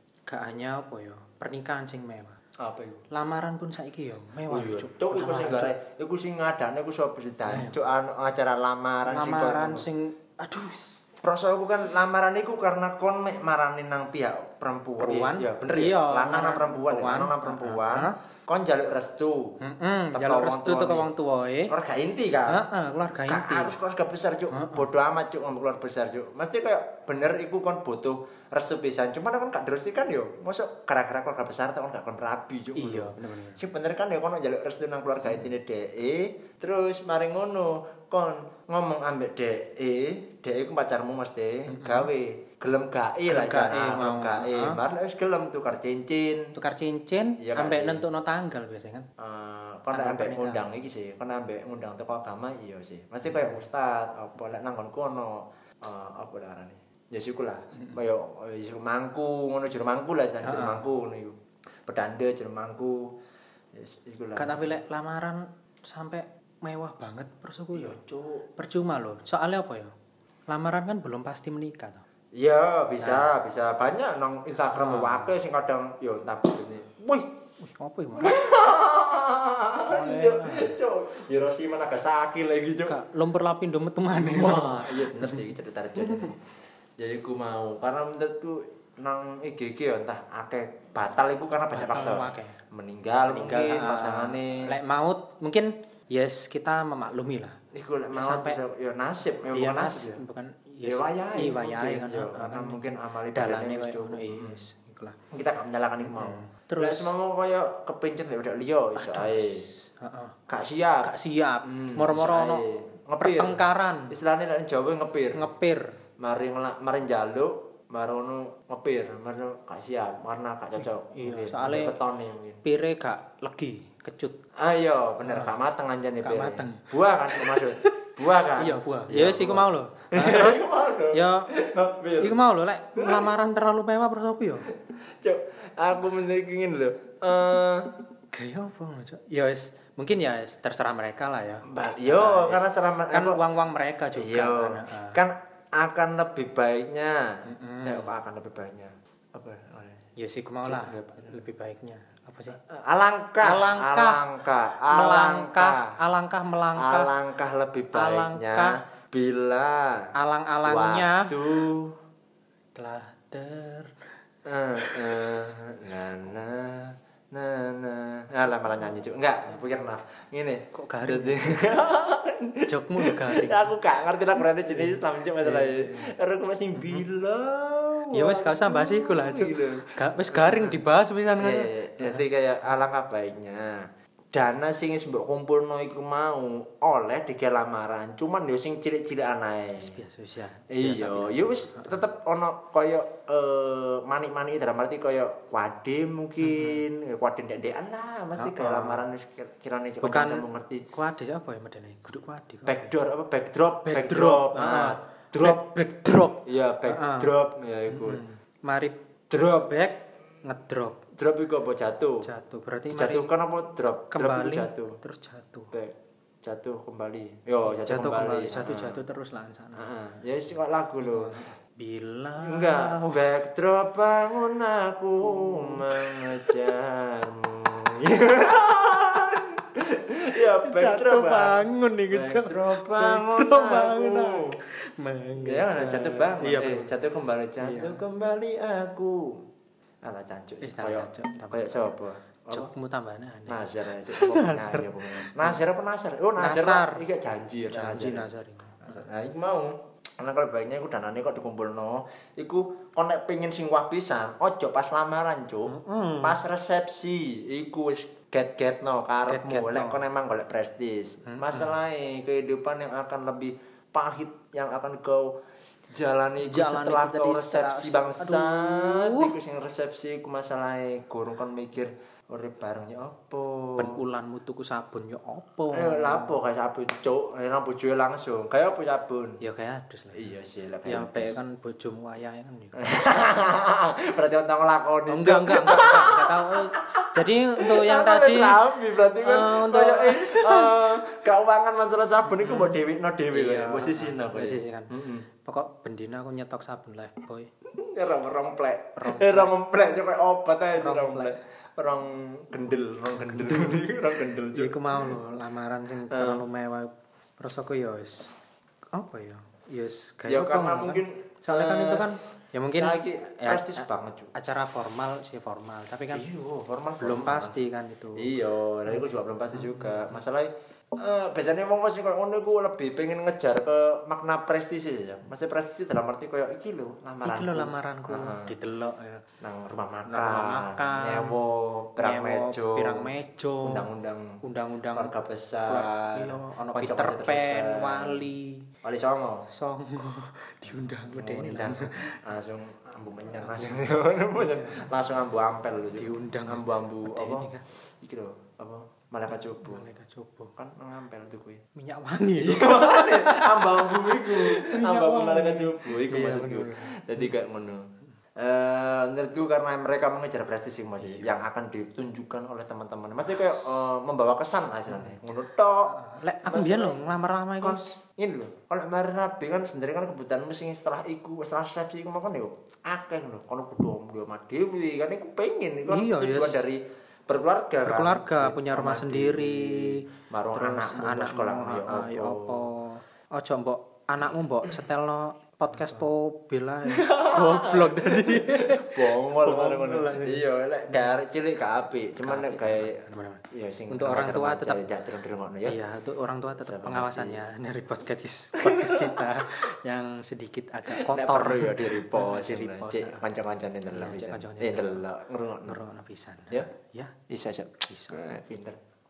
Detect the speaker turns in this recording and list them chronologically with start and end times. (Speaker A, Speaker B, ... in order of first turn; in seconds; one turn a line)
Speaker A: 0.3-2.4
Speaker B: 2.6-3.0
Speaker A: 3.1-5.7
Speaker B: 4.5-9.8
Speaker A: 7.5-7.8
Speaker A: 9.1-11.0
Speaker B: 11.2-19.6
Speaker A: 15.0-18.1
Speaker A: 19.6-21.7
Speaker B: 20.1-21.1
Speaker B: 21.7-22.6
Speaker A: 22.5-23.8
Speaker B: 23.3-46.5
Speaker A: 24.5-24.9
Speaker A: 32.7-33.6
Speaker A: 35.2-35.5
Speaker A: 41.7-42.1
Speaker A: 43.3-44.8
Speaker A: 46.5-49.1
Speaker B: 47.4-48.0
Speaker B: 49.2-63.1
Speaker A: 49.9-50.6
Speaker A: 53.3-53.5
Speaker A: 60.4-60.8
Speaker B: 63.7-64.7
Speaker A: 64.3-68.0
Speaker B: 67.7-68.4
Speaker A: 68.6-69.9
Speaker A: 70.5-72.0
Speaker B: 72.3-77.3
Speaker A: 73.0-73.3
Speaker A: 74.7-75.3
Speaker A: 77.6-78.5
Speaker B: 78.2-83.0
Speaker A: 79.8-80.7
Speaker A: 82.8-86.3
Speaker B: 84.1-86.4
Speaker B: 87.0-94.7
Speaker A: 91.7-92.6
Speaker A: 93.3-97.6
Speaker B: 97.7-100.2
Speaker A: 98.1-98.6
Speaker A: 99.5-105.2
Speaker B: 100.8-104.6
Speaker B: 105.3-109.7
Speaker A: 106.0-107.1
Speaker A: 109.0-110.3
Speaker B: 110.5-111.1
Speaker A: 111.0-112.7
Speaker B: 111.6-115.5
Speaker A: 113.2-114.1
Speaker A: 115.3-115.8
Speaker B: 116.2-122.6
Speaker A: 120.8-122.0
Speaker A: 122.6-124.4
Speaker B: 124.6-132.4
Speaker A: 125.2-125.5
Speaker A: 126.2-127.9
Speaker A: 128.6-131.5
Speaker A: 132.2-134.7
Speaker B: 132.9-133.2
Speaker B: 135.2-137.9
Speaker A: 138.3-145.2
Speaker B: 141.6-143.4
Speaker B: 144.2-150.0
Speaker A: 147.5-148.1
Speaker A: 150.2-152.6
Speaker B: 150.6-151.3
Speaker B: 152.7-156.0
Speaker A: 153.4-154.3
Speaker A: 154.9-157.1
Speaker B: 156.7-162.0
Speaker A: 157.9-158.8
Speaker A: 160.1-161.7
Speaker A: 162.7-163.9
Speaker B: 164.4-180.8
Speaker A: 164.8-165.4
Speaker A: 170.7-171.8
Speaker A: 172.7-173.7
Speaker A: 174.3-176.1
Speaker A: 176.8-177.0
Speaker A: 178.1-182.2
Speaker B: 181.4-190.0
Speaker A: 189.8-192.0
Speaker B: 190.7-200.8
Speaker A: 196.4-196.8
Speaker A: 198.4-199.0
Speaker A: 200.0-202.9
Speaker B: 202.6-205.6
Speaker A: 203.8-207.3
Speaker B: 206.4-208.2
Speaker A: 207.9-209.0
Speaker B: 209.3-209.8
Speaker A: 209.6-211.0
Speaker B: 211.1-212.3
Speaker A: 212.2-213.3
Speaker B: 212.9-215.0
Speaker A: 214.1-215.7
Speaker B: 215.7-219.0
Speaker A: 217.7-219.8
Speaker B: 219.7-221.3
Speaker A: 221.0-223.0
Speaker B: 222.4-234.6
Speaker A: 225.2-226.7
Speaker A: 230.6-236.9
Speaker B: 235.4-239.4
Speaker A: 237.6-238.0
Speaker B: 240.0-242.7
Speaker A: 240.6-241.9
Speaker A: 242.5-245.6
Speaker B: 243.5-248.3
Speaker A: 246.4-247.0
Speaker A: 247.7-249.0
Speaker B: 248.8-265.4
Speaker A: 255.7-256.4
Speaker A: 259.2-260.0
Speaker A: 261.2-261.8
Speaker B: 265.9-274.0
Speaker A: 266.4-269.3
Speaker A: 273.8-276.3
Speaker B: 275.7-279.4
Speaker A: 279.4-283.3
Speaker B: 280.1-281.4
Speaker B: 282.8-295.2
Speaker A: 285.1-290.9
Speaker A: 292.3-297.5
Speaker B: 297.8-305.1
Speaker A: 299.0-299.5
Speaker A: 300.8-301.4
Speaker A: 303.1-303.9
Speaker A: 304.4-308.3
Speaker B: 306.1-306.4
Speaker A: 308.9-316.2
Speaker B: 310.2-312.1
Speaker B: 312.7-314.3
Speaker B: 316.1-317.6
Speaker A: 317.0-318.3
Speaker B: 318.1-328.5
Speaker A: 318.9-320.2
Speaker A: 327.2-329.2
Speaker B: 329.4-333.1
Speaker A: 330.1-331.4
Speaker A: 332.0-333.9
Speaker B: 333.6-334.4
Speaker A: 334.4-335.1
Speaker B: 334.9-338.2
Speaker A: 335.7-338.7
Speaker B: 338.8-339.5
Speaker A: 339.5-342.2
Speaker B: 341.1-349.9
Speaker A: 343.3-344.9
Speaker A: 345.9-347.6
Speaker A: 349.3-350.5
Speaker B: 350.6-351.6
Speaker A: 351.7-357.3
Speaker B: 352.4-367.0
Speaker A: 364.9-365.2
Speaker A: 365.9-367.9
Speaker B: 367.6-382.7
Speaker A: 375.9-376.6
Speaker A: 377.8-391.0
Speaker B: 386.9-395.8
Speaker A: 392.2-394.9
Speaker A: 395.6-403.3
Speaker B: 396.6-397.4
Speaker B: 398.6-399.4
Speaker B: 400.9-405.8
Speaker A: 403.9-405.0
Speaker A: 405.6-407.2
Speaker B: 407.3-408.8
Speaker A: 407.9-408.2